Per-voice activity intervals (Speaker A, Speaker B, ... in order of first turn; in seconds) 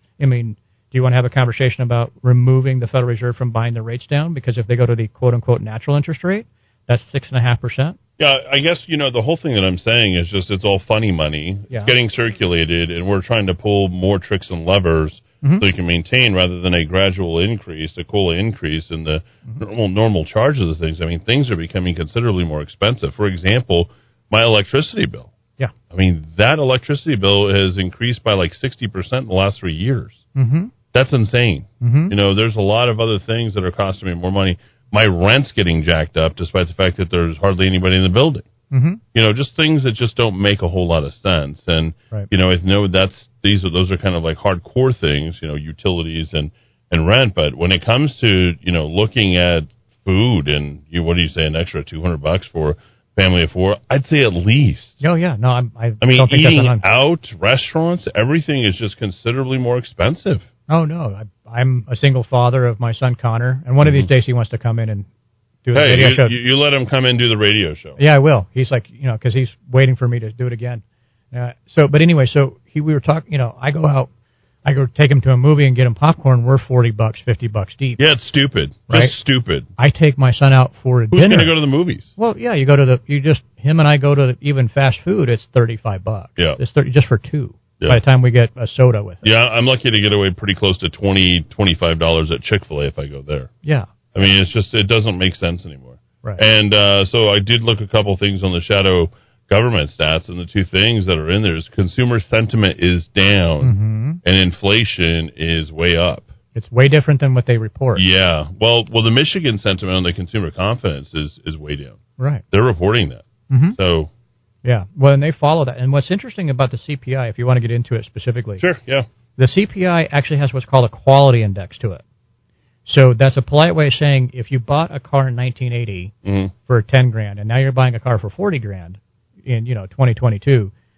Speaker A: 0.2-8.0, 30.4-30.7, 31.8-32.1, 38.7-39.0, 55.0-56.9, 60.7-65.1, 65.6-66.4, 68.0-74.1, 74.6-78.0, 78.9-79.1, 79.8-81.5, 82.2-89.3, 93.6-93.9, 103.6-104.2, 106.5-108.0, 112.2-112.4, 113.5-113.8, 114.6-118.6, 119.4-122.0, 122.9-130.7
Speaker B: 8.2-25.3, 25.9-30.2, 30.9-38.5, 39.1-55.0, 56.0-60.5, 65.7-68.0, 78.0-79.7, 81.1-82.1, 89.2-93.5, 94.1-106.3, 108.0-112.0, 112.5-113.2, 113.8-114.1, 118.6-119.1, 126.2-126.5